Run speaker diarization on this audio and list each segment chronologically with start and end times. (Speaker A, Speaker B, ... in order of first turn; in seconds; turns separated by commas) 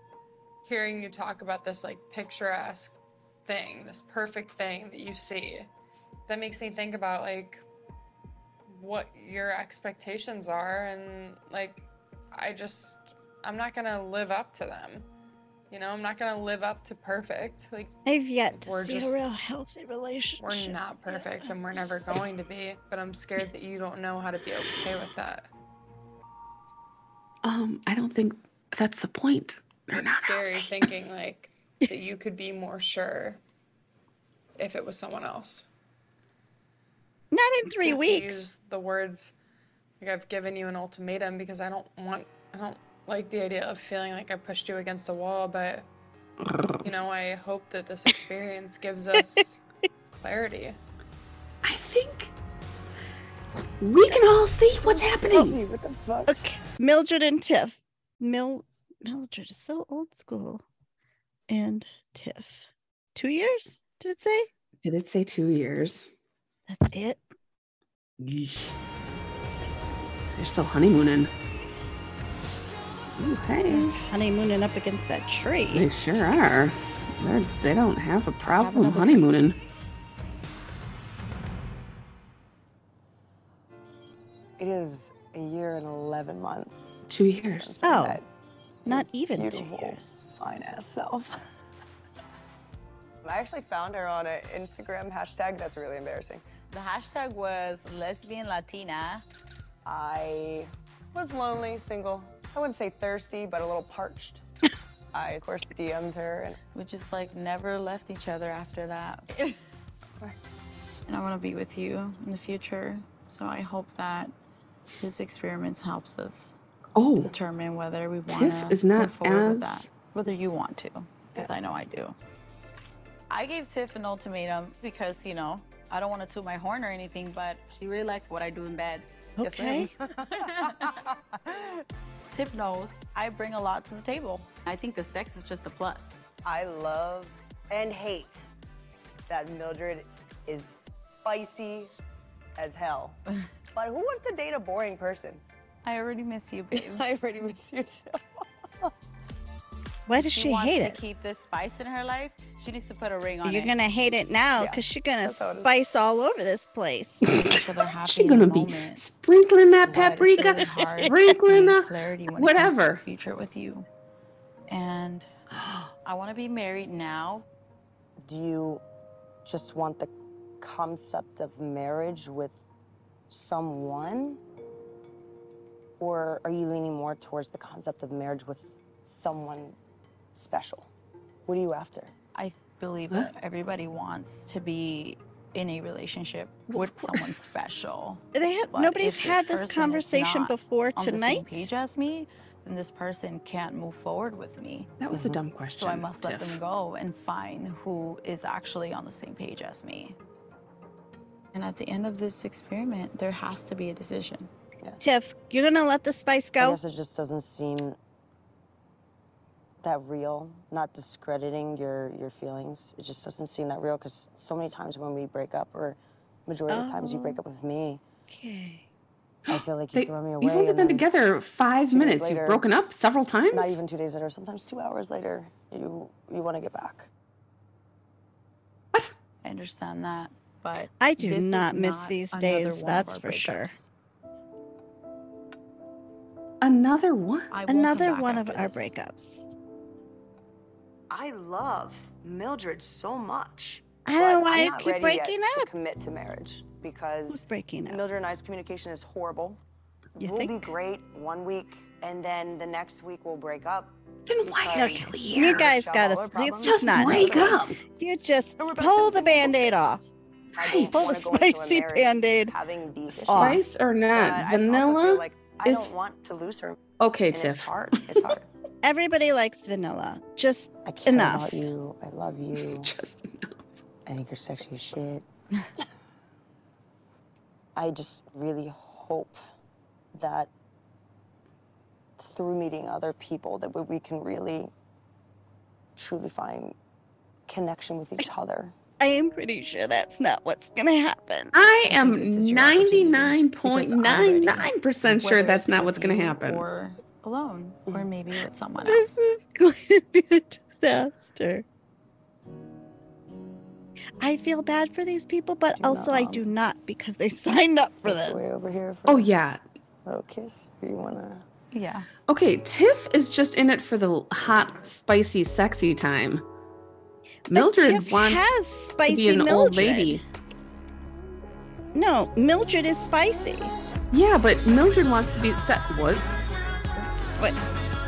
Speaker A: 0.6-5.7, Speaker A: 6.3-7.6, Speaker A: 8.7-15.1, Speaker A: 15.7-17.9, Speaker B: 18.1-22.2, Speaker A: 18.5-19.1, Speaker A: 20.4-25.5, Speaker C: 27.4-30.9, Speaker A: 29.9-33.4, Speaker A: 34.6-35.6, Speaker B: 37.3-38.5, Speaker A: 37.8-39.3, Speaker A: 40.0-45.9, Speaker C: 46.5-46.8, Speaker A: 46.8-49.6, Speaker A: 50.2-50.8, Speaker C: 51.6-52.3, Speaker C: 53.8-55.6, Speaker D: 54.7-56.4, Speaker B: 56.2-60.6, Speaker B: 61.5-64.5, Speaker C: 64.8-66.1, Speaker B: 66.7-67.2, Speaker C: 68.2-68.7, Speaker C: 70.3-71.3, Speaker C: 73.2-74.0, Speaker B: 73.7-75.9, Speaker C: 75.7-79.6, Speaker B: 78.6-79.2, Speaker D: 84.6-88.2, Speaker C: 87.1-87.8, Speaker B: 87.8-88.2, Speaker D: 88.8-91.4, Speaker B: 88.8-90.2, Speaker D: 93.2-96.4, Speaker E: 96.7-99.2, Speaker D: 99.8-104.4, Speaker D: 105.1-106.6, Speaker E: 106.7-109.3, Speaker E: 111.1-114.3, Speaker E: 115.0-116.5, Speaker C: 117.0-117.3, Speaker E: 117.2-122.2, Speaker C: 118.3-119.8, Speaker E: 123.3-129.8, Speaker B: 129.4-129.9, Speaker E: 132.3-136.2, Speaker D: 136.4-138.5, Speaker D: 139.3-141.9, Speaker D: 142.6-143.2, Speaker D: 143.7-145.4, Speaker E: 145.8-147.0, Speaker D: 146.7-148.2, Speaker B: 150.1-151.0, Speaker E: 150.1-153.7, Speaker B: 153.4-157.3, Speaker D: 154.5-155.7, Speaker C: 157.2-163.0, Speaker E: 157.3-159.0, Speaker D: 159.8-160.2, Speaker E: 159.9-163.9, Speaker B: 160.4-161.1, Speaker E: 164.7-165.3, Speaker C: 165.5-165.9, Speaker E: 166.0-167.4, Speaker D: 168.2-168.8, Speaker D: 169.4-170.1, Speaker D: 170.6-172.6, Speaker D: 173.3-174.4, Speaker D: 176.0-179.8, Speaker D: 180.3-180.9, Speaker D: 181.4-182.1, Speaker E: 182.3-194.9, Speaker C: 186.7-187.3, Speaker B: 188.3-191.7, Speaker C: 195.0-196.6, Speaker D: 195.1-195.4, Speaker E: 195.7-200.2, Speaker E: 201.5-204.5, Speaker B: 205.0-206.8, Speaker D: 206.6-208.0, Speaker D: 209.8-218.0, Speaker B: 216.7-217.4, Speaker B: 218.3-218.8, Speaker C: 219.5-223.8, Speaker D: 219.5-221.1, Speaker D: 221.9-222.9, Speaker D: 223.5-227.1, Speaker E: 229.4-233.9, Speaker B: 231.0-233.7, Speaker C: 236.6-237.5, Speaker E: 237.5-238.9, Speaker B: 237.7-239.5, Speaker D: 241.1-249.6, Speaker B: 244.0-245.7, Speaker B: 247.3-248.0, Speaker D: 250.2-253.9, Speaker B: 250.2-250.7, Speaker C: 254.3-255.8, Speaker D: 254.5-257.6, Speaker B: 254.7-260.0, Speaker C: 256.6-257.8, Speaker D: 258.6-259.8, Speaker D: 260.6-268.4, Speaker C: 260.6-261.0, Speaker B: 260.8-262.5, Speaker C: 263.1-265.9, Speaker B: 263.2-263.6, Speaker C: 267.0-268.1, Speaker B: 268.8-271.7, Speaker D: 270.8-272.9, Speaker C: 272.5-273.6, Speaker D: 274.1-275.2, Speaker D: 277.8-279.4, Speaker D: 280.1-280.5, Speaker D: 282.2-284.7, Speaker D: 285.9-286.7, Speaker D: 287.5-288.7, Speaker B: 289.0-291.5, Speaker C: 291.5-296.6, Speaker E: 291.9-299.2, Speaker B: 298.8-301.6, Speaker B: 304.2-308.5, Speaker D: 305.8-306.4, Speaker D: 308.0-309.3, Speaker C: 309.1-309.6, Speaker D: 310.0-311.4, Speaker E: 311.7-312.1, Speaker C: 312.3-316.4, Speaker C: 317.5-318.5, Speaker B: 317.5-320.2, Speaker C: 319.1-320.2, Speaker B: 321.9-323.7, Speaker C: 324.1-326.3, Speaker B: 326.9-327.6